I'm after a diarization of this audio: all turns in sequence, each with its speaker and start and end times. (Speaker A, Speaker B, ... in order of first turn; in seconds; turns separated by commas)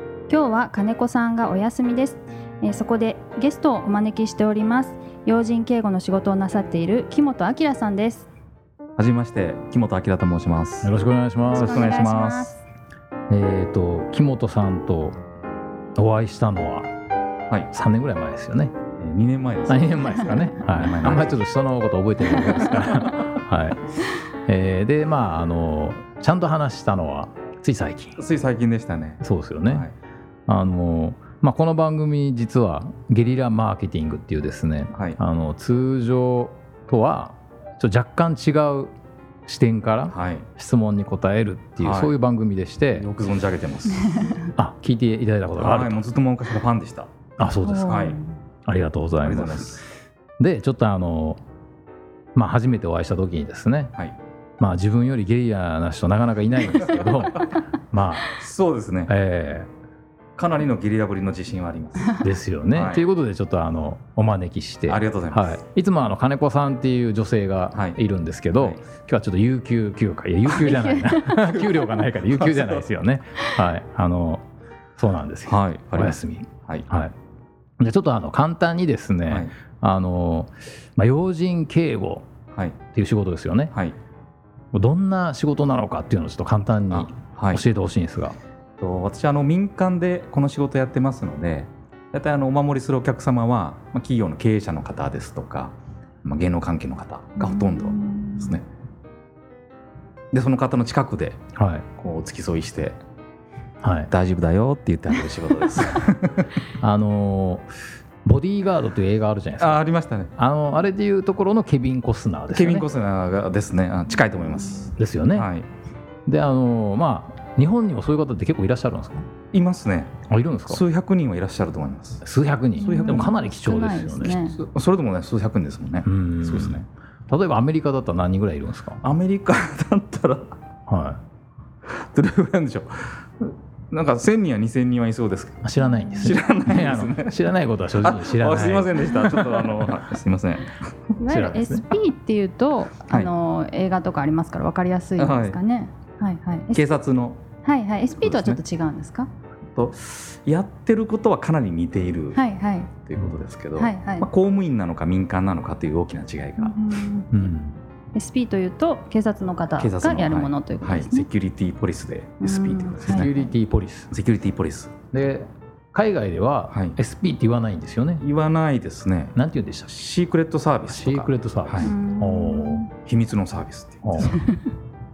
Speaker A: 0.3-8.3, Speaker B: 9.0-10.9, Speaker C: 10.8-11.9, Speaker A: 11.5-12.6, Speaker B: 11.5-12.5, Speaker C: 13.3-15.2, Speaker C: 16.0-16.9, Speaker C: 17.7-18.7, Speaker B: 19.0-20.0, Speaker C: 19.7-23.8, Speaker A: 20.2-20.5, Speaker B: 20.6-21.4, Speaker C: 24.5-28.2, Speaker B: 28.2-29.9, Speaker C: 29.2-29.9, Speaker C: 30.5-38.9, Speaker B: 34.9-35.2, Speaker C: 39.5-43.1, Speaker B: 40.1-40.5, Speaker B: 41.8-42.1, Speaker B: 42.9-44.3, Speaker A: 43.9-44.5, Speaker C: 44.6-46.0, Speaker B: 45.5-47.1, Speaker C: 47.4-48.0, Speaker A: 47.6-48.3, Speaker B: 47.9-48.2, Speaker C: 48.7-49.8, Speaker B: 49.2-49.9, Speaker C: 50.4-51.4, Speaker C: 52.4-53.9, Speaker C: 54.6-58.3, Speaker B: 58.3-59.1, Speaker C: 59.1-59.7, Speaker B: 60.4-63.0, Speaker C: 62.2-74.4, Speaker B: 64.9-65.6, Speaker B: 67.7-68.0, Speaker B: 68.5-68.8, Speaker A: 70.5-72.0, Speaker B: 72.2-72.8, Speaker C: 75.0-77.1, Speaker B: 75.5-76.9, Speaker C: 77.8-82.3, Speaker B: 79.3-79.5, Speaker C: 83.0-83.7, Speaker C: 84.7-88.4, Speaker B: 86.9-87.7, Speaker B: 88.8-98.6, Speaker A: 97.4-98.6, Speaker B: 100.3-101.4, Speaker C: 101.6-101.9, Speaker B: 102.0-103.0, Speaker C: 103.8-104.1, Speaker B: 104.1-106.5, Speaker C: 106.8-107.7, Speaker C: 108.2-109.8, Speaker B: 109.6-110.3, Speaker C: 110.4-112.9, Speaker B: 112.5-115.7, Speaker C: 115.0-115.5, Speaker C: 116.3-119.3, Speaker B: 119.5-122.2, Speaker C: 120.3-120.8, Speaker C: 122.2-124.4, Speaker B: 122.8-123.3, Speaker A: 122.8-124.6, Speaker B: 124.3-126.9, Speaker C: 126.0-129.0, Speaker B: 129.0-130.5, Speaker C: 130.9-131.2, Speaker B: 131.9-135.6, Speaker C: 135.6-139.1, Speaker A: 135.8-136.4, Speaker B: 136.2-137.4, Speaker B: 138.0-141.1, Speaker A: 139.0-139.6, Speaker A: 141.2-146.8, Speaker C: 141.3-141.9, Speaker B: 145.2-145.6, Speaker B: 146.7-147.4, Speaker A: 147.6-149.3, Speaker B: 148.2-148.6, Speaker B: 149.8-152.4, Speaker A: 152.3-152.9, Speaker B: 153.0-156.8, Speaker A: 153.8-154.3, Speaker A: 156.6-157.4, Speaker C: 157.3-157.8, Speaker A: 158.1-161.3, Speaker B: 159.8-163.3, Speaker A: 162.4-163.5, Speaker C: 163.0-164.1, Speaker B: 164.1-165.0, Speaker C: 165.1-168.2, Speaker B: 166.7-167.0, Speaker B: 168.2-169.4, Speaker C: 169.4-169.9, Speaker B: 169.9-171.9, Speaker C: 170.9-172.8, Speaker A: 171.8-172.9, Speaker B: 173.0-174.4, Speaker C: 174.0-174.3, Speaker A: 174.3-174.6